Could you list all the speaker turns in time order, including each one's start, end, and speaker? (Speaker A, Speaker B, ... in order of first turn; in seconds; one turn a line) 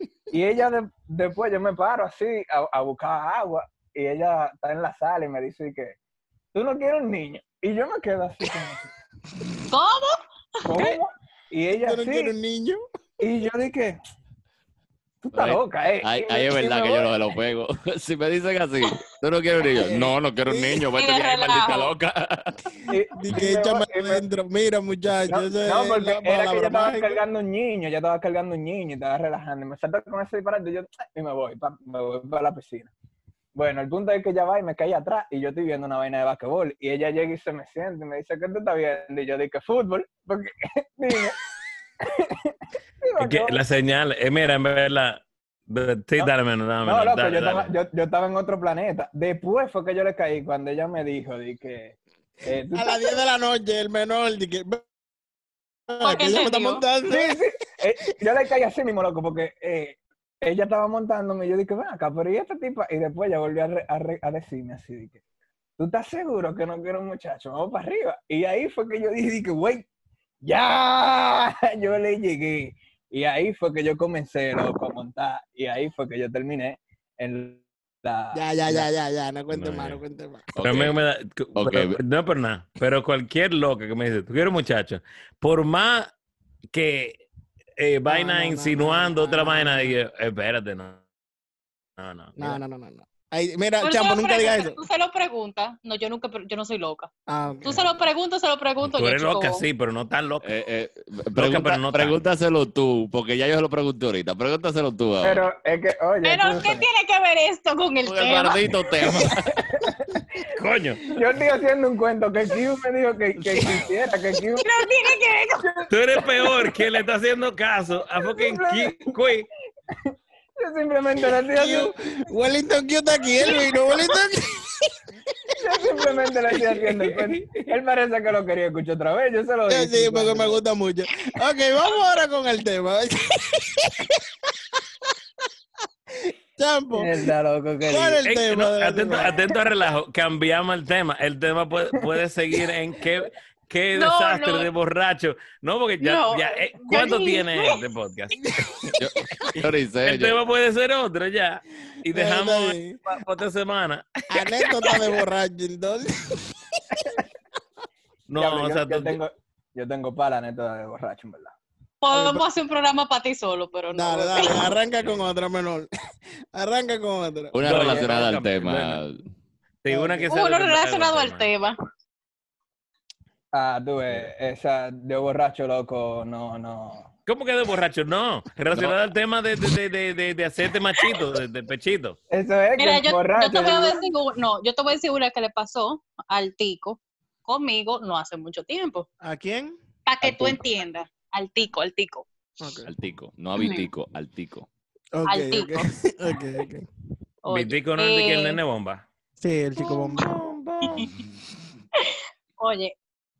Speaker A: 0.3-6.0
Speaker A: 6.5-8.8
Speaker B: 9.7-11.0
Speaker A: 10.6-12.3
Speaker C: 11.7-12.8
Speaker A: 13.2-13.9
Speaker A: 15.2-17.1
Speaker D: 15.3-22.6
Speaker A: 19.8-20.1
Speaker C: 20.4-20.9
Speaker B: 20.9-21.9
Speaker A: 22.9-24.2
Speaker C: 23.1-27.2
Speaker A: 25.3-32.9
Speaker A: 33.5-41.4
Speaker A: 42.0-43.6
Speaker E: 43.2-47.7
Speaker A: 46.8-53.1
Speaker C: 52.7-54.8
Speaker C: 55.9-57.4
Speaker B: 56.0-56.8
Speaker A: 57.1-65.2
Speaker A: 65.8-69.8
Speaker A: 70.4-78.9
Speaker C: 78.3-80.5
Speaker E: 79.5-80.0
Speaker D: 80.5-81.0
Speaker E: 80.6-86.1
Speaker D: 81.5-82.0
Speaker E: 86.7-87.2
Speaker E: 87.8-91.0
Speaker C: 88.0-90.0
Speaker E: 92.0-92.6
Speaker C: 92.4-94.8
Speaker B: 93.8-97.1
Speaker C: 97.3-97.8
Speaker B: 97.6-99.6
Speaker E: 98.9-100.5
Speaker D: 100.4-105.5
Speaker E: 101.3-102.2
Speaker A: 105.2-106.8
Speaker B: 106.2-108.6
Speaker D: 108.0-109.5
Speaker A: 109.2-110.5
Speaker E: 110.5-111.1
Speaker A: 111.0-114.7
Speaker B: 114.5-115.6
Speaker A: 115.6-116.8
Speaker E: 115.9-119.5
Speaker A: 118.2-119.1
Speaker A: 119.9-121.9
Speaker C: 121.5-124.9
Speaker C: 125.5-127.0
Speaker A: 125.5-130.6
Speaker C: 129.7-134.5
Speaker C: 136.1-137.3
Speaker A: 136.9-138.2
Speaker C: 137.8-139.4
Speaker E: 138.2-148.8
Speaker B: 143.9-144.7
Speaker B: 146.0-147.8
Speaker D: 149.0-150.4
Speaker E: 150.0-154.1
Speaker C: 152.1-153.0
Speaker C: 154.3-157.1
Speaker E: 158.3-159.2
Speaker A: 158.3-161.5
Speaker B: 162.0-164.8
Speaker C: 162.1-162.4
Speaker C: 163.9-165.9
Speaker C: 166.5-167.6
Speaker D: 167.5-169.2
Speaker E: 167.6-169.0
Speaker A: 167.8-168.1
Speaker E: 169.8-171.5
Speaker A: 169.9-170.3
Speaker B: 170.3-171.8
Speaker A: 173.5-177.1
Speaker E: 177.2-182.2
Speaker A: 182.3-184.0
Speaker B: 182.8-189.1
Speaker C: 189.2-189.7
Speaker B: 190.1-192.2
Speaker A: 190.2-190.6
Speaker C: 192.6-192.9
Speaker D: 192.8-194.7
Speaker B: 193.6-193.9
Speaker C: 195.1-196.8
Speaker B: 195.3-195.9
Speaker B: 197.4-198.6
Speaker E: 197.5-199.0
Speaker C: 199.4-200.3
Speaker B: 199.8-200.2
Speaker E: 200.2-201.1
Speaker B: 201.9-202.9